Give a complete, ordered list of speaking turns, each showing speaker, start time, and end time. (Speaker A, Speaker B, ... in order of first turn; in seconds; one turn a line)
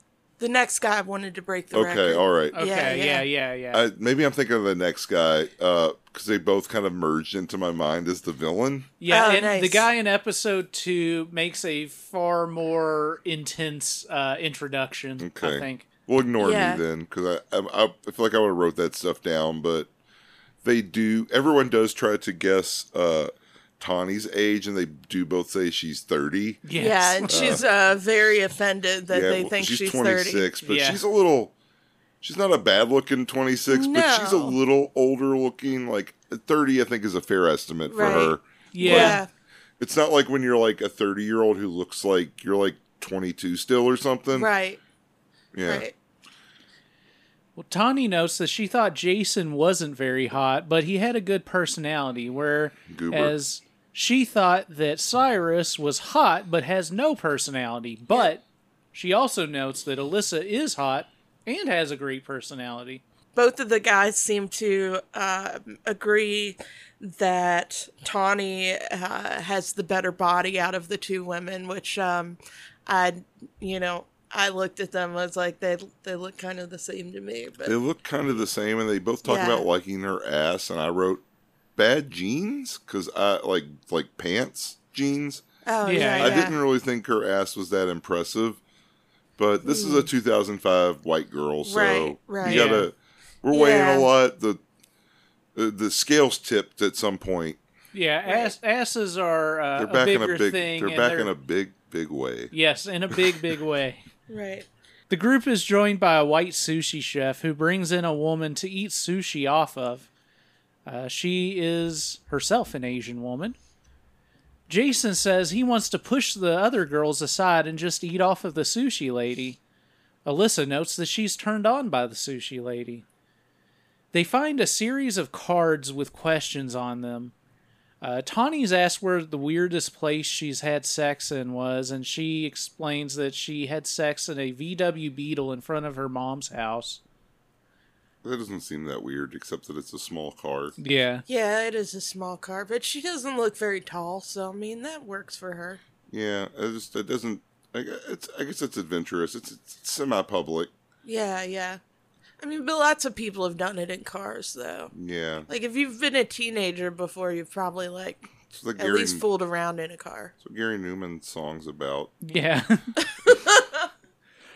Speaker A: 0.4-3.2
Speaker B: 1.7-2.6
Speaker C: 2.5-3.8
Speaker B: 3.7-8.9
Speaker C: 9.0-15.9
Speaker A: 9.1-9.9
Speaker B: 15.2-19.9
Speaker A: 16.4-16.8
Speaker B: 20.6-26.6
Speaker C: 26.6-27.6
Speaker A: 26.8-30.5
Speaker B: 27.2-27.6
Speaker B: 29.1-31.5
Speaker C: 30.6-31.0
Speaker B: 32.2-39.2
Speaker A: 33.7-34.6
Speaker A: 37.9-39.3
Speaker C: 38.7-39.2
Speaker B: 39.8-44.5
Speaker A: 44.3-44.8
Speaker B: 45.5-45.9
Speaker A: 45.6-45.9
Speaker C: 47.5-63.0
Speaker B: 52.9-53.4
Speaker A: 63.4-77.8
Speaker B: 77.6-81.2
Speaker A: 79.2-79.7
Speaker B: 81.8-85.4
Speaker A: 85.7-86.5
Speaker C: 85.8-86.4
Speaker B: 86.0-88.6
Speaker B: 89.4-94.6
Speaker A: 89.6-90.1
Speaker A: 91.6-92.8
Speaker C: 92.4-92.9
Speaker A: 93.5-94.1
Speaker B: 95.5-97.6
Speaker C: 97.9-101.3
Speaker A: 98.3-98.5
Speaker B: 99.8-102.5
Speaker C: 102.5-104.0
Speaker A: 104.3-104.7
Speaker C: 105.1-110.1
Speaker C: 110.8-113.6
Speaker C: 114.7-119.6
Speaker C: 120.2-123.0
Speaker C: 124.1-127.3
Speaker C: 128.0-137.0
Speaker B: 138.2-140.7
Speaker C: 140.8-141.2
Speaker A: 141.3-145.8
Speaker B: 146.1-150.7
Speaker A: 151.0-151.8
Speaker A: 152.4-154.9
Speaker B: 154.9-155.5
Speaker A: 155.5-160.3
Speaker B: 158.4-159.2
Speaker B: 160.4-162.1
Speaker C: 162.2-162.9
Speaker A: 163.1-163.9